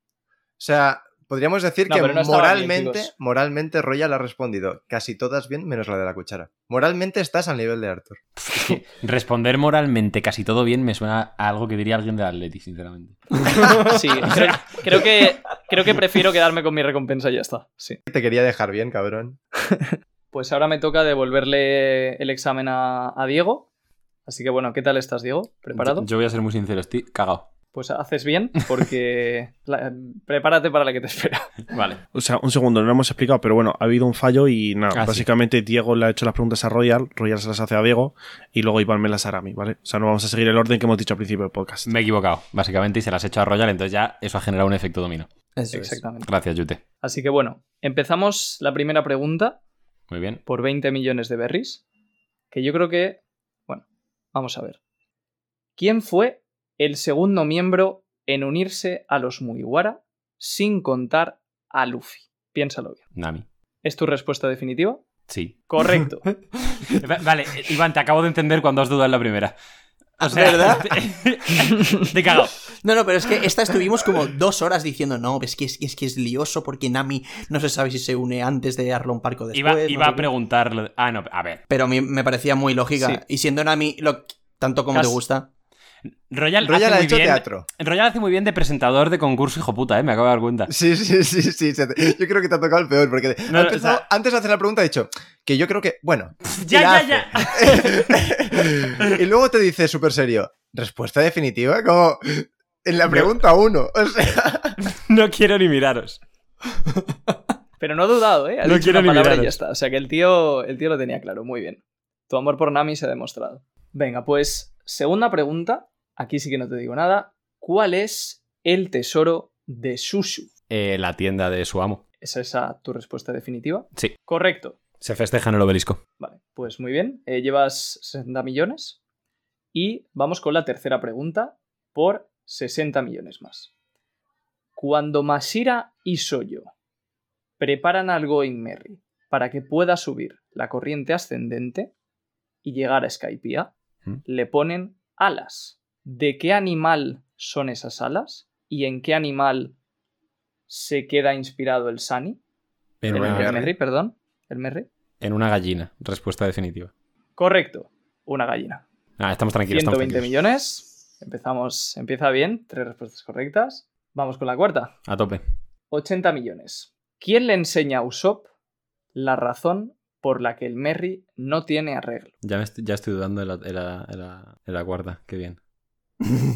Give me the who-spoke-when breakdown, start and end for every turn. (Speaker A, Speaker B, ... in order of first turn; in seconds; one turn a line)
Speaker A: 0.6-8.2
Speaker B: 1.9-3.1
Speaker C: 8.4-13.4
Speaker D: 13.5-13.9
Speaker B: 13.7-18.0
Speaker C: 14.2-14.8
Speaker A: 18.1-19.4
Speaker B: 19.7-23.7
Speaker B: 24.3-26.1
Speaker C: 25.8-27.5
Speaker B: 27.7-31.6
Speaker C: 31.7-32.0
Speaker E: 32.1-41.9
Speaker C: 34.9-35.3
Speaker C: 41.9-45.3
Speaker D: 45.6-46.0
Speaker B: 45.7-46.3
Speaker C: 46.2-46.8
Speaker B: 47.0-49.6
Speaker C: 50.1-50.4
Speaker B: 50.5-51.8
Speaker B: 52.5-54.8
Speaker B: 55.8-63.0
Speaker C: 63.1-63.5
Speaker B: 63.8-65.0
Speaker C: 65.3-65.6
Speaker B: 65.7-66.3
Speaker C: 66.9-69.5
Speaker D: 70.2-71.0
Speaker C: 70.2-72.6
Speaker D: 72.8-80.3
Speaker C: 79.5-81.6
Speaker D: 81.7-85.5
Speaker B: 84.9-85.2
Speaker C: 86.3-90.7
Speaker A: 86.6-87.7
Speaker A: 90.7-104.8
Speaker C: 93.5-94.0
Speaker C: 96.5-98.1
Speaker C: 104.8-106.2
Speaker B: 107.8-120.5
Speaker C: 108.6-109.6
Speaker C: 120.7-122.0
Speaker B: 122.2-124.8
Speaker C: 125.0-126.0
Speaker B: 126.2-129.0
Speaker B: 129.7-133.7
Speaker B: 134.8-136.7
Speaker B: 137.6-141.9
Speaker B: 142.6-143.7
Speaker B: 144.2-149.8
Speaker B: 150.7-152.4
Speaker C: 153.0-153.7
Speaker B: 153.1-154.9
Speaker A: 153.1-153.7
Speaker C: 155.2-156.9
Speaker B: 157.4-158.8
Speaker C: 159.2-160.3
Speaker B: 159.7-164.9
Speaker C: 165.1-165.4
Speaker B: 165.9-168.5
Speaker B: 169.1-172.3
Speaker C: 172.4-175.6